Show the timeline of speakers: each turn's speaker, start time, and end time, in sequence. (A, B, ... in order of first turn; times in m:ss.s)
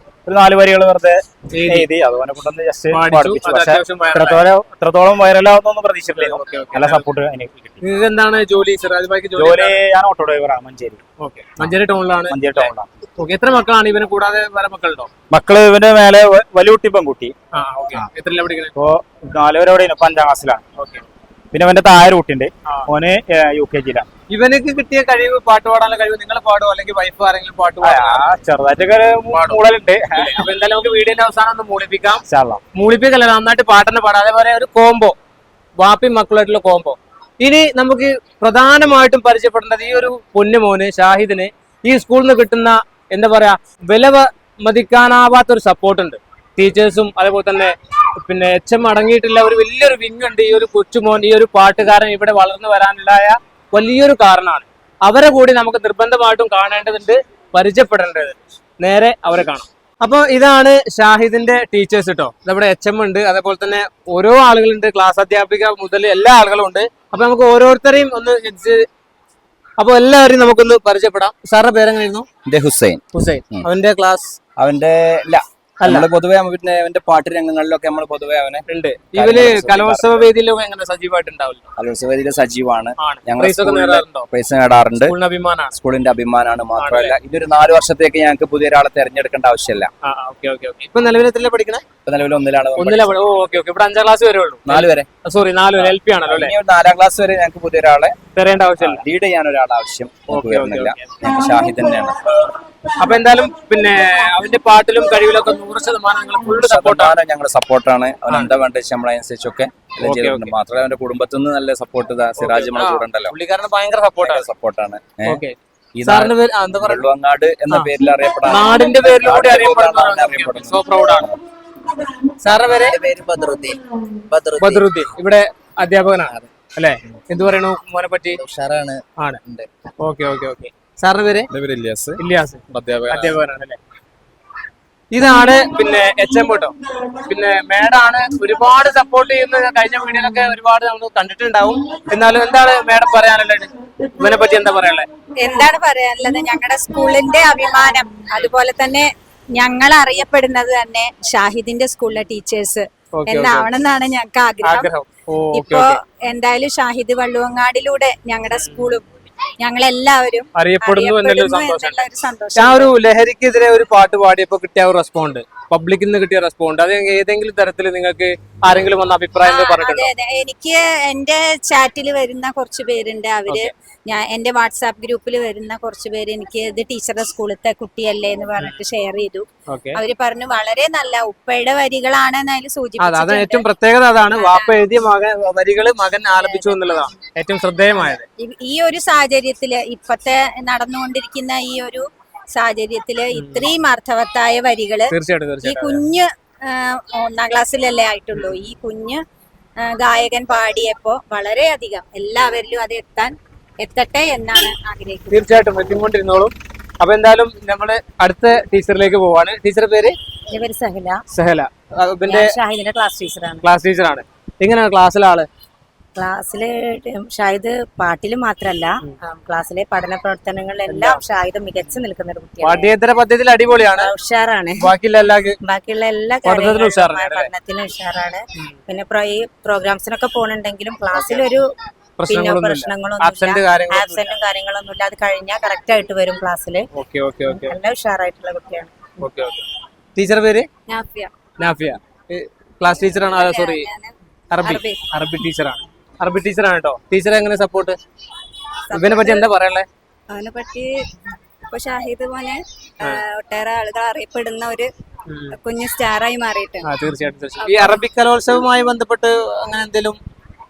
0:00.2-0:07.8 A
0:01.5-0:01.9 B
0:02.9-0:04.4 B
0:06.1-0:07.0 B
0:07.8-0:09.8 B
0:09.4-0:11.0 A
0:11.2-0:15.1 B
0:12.3-0:12.9 A
0:15.3-0:17.3 A
0:17.5-0:18.7 B
0:18.8-0:20.6 A
0:20.8-0:21.0 B
0:21.5-0:24.1 A
0:24.3-0:28.3 B
0:27.8-0:30.4 A
0:29.3-0:29.6 B
0:30.2-0:32.2 B
0:32.3-0:32.6 A
0:32.7-0:35.1 B
0:35.8-0:47.7 B
0:48.2-1:08.8 B
1:09.8-1:12.2 B
1:12.5-1:13.0 C
1:13.1-1:14.4 B
1:14.6-1:18.6 C
1:18.7-1:21.7 B
1:19.1-1:20.3 C
1:21.8-1:25.1 C
1:23.0-1:24.3 B
1:25.0-1:25.7 B
1:25.7-1:29.9 C
1:26.8-1:27.2 B
1:30.0-1:31.8 B
1:32.0-1:33.5 C
1:32.8-1:36.5 B
1:34.6-1:35.0 C
1:35.8-1:38.2 C
1:38.4-1:39.0 B
1:38.8-1:42.1 C
1:40.3-1:41.2 B
1:43.0-1:47.2 B
1:46.6-1:53.3 C
1:48.3-1:48.5 B
1:50.0-1:50.5 B
1:52.4-1:54.4 B
1:54.2-1:55.4 C
1:55.2-1:57.1 B
1:56.0-2:01.3 C
1:58.4-2:01.3 B
2:02.4-2:03.0 B
2:02.6-2:03.8 C
2:04.3-2:04.9 C
2:04.6-2:08.4 B
2:06.3-2:06.5 C
2:08.4-2:09.7 C
2:10.0-2:11.5 B
2:11.5-2:12.2 C
2:12.2-2:13.8 B
2:12.7-2:13.4 C
2:15.1-2:25.1 B
2:25.4-2:34.9 D
2:33.2-2:33.7 B
2:34.6-2:36.0 B
2:35.5-2:39.0 D
2:38.5-2:38.9 B
2:39.6-2:42.9 D
2:40.5-2:50.1 B
2:49.4-3:03.6 D
2:53.5-2:53.7 B
2:58.6-2:58.8 B
2:59.7-3:00.0 B
3:03.0-3:08.2 B
3:04.3-3:04.8 D
3:06.4-3:07.1 D
3:08.1-3:15.1 D
3:13.3-3:13.7 B
3:15.1-3:16.1 B
3:15.6-3:19.2 D
3:18.3-3:18.6 B
3:19.8-3:25.4 D
3:25.3-3:30.1 B
3:30.5-3:31.2 E
3:31.3-3:32.5 B
3:32.3-3:33.6 E
3:33.6-3:35.5 B
3:36.2-3:42.9 E
3:40.9-3:41.2 B
3:42.6-3:44.1 B
3:44.0-3:44.9 E
3:44.8-3:45.6 B
3:45.6-3:51.6 E
3:46.4-3:47.5 B
3:51.1-3:51.4 B
3:52.2-3:54.3 B
3:52.2-3:56.9 E
3:57.0-3:57.8 B
3:57.5-3:58.9 E
3:59.2-3:59.6 B
4:00.2-4:00.7 B
4:00.9-4:01.3 D
4:01.6-4:03.9 B
4:03.0-4:05.0 D
4:04.5-4:08.0 B
4:08.9-4:09.4 D
4:08.9-4:09.8 B
4:10.3-4:10.9 D
4:11.7-4:14.9 D
4:15.3-4:15.6 B
4:15.5-4:16.9 D
4:16.8-4:20.2 B
4:17.6-4:18.0 D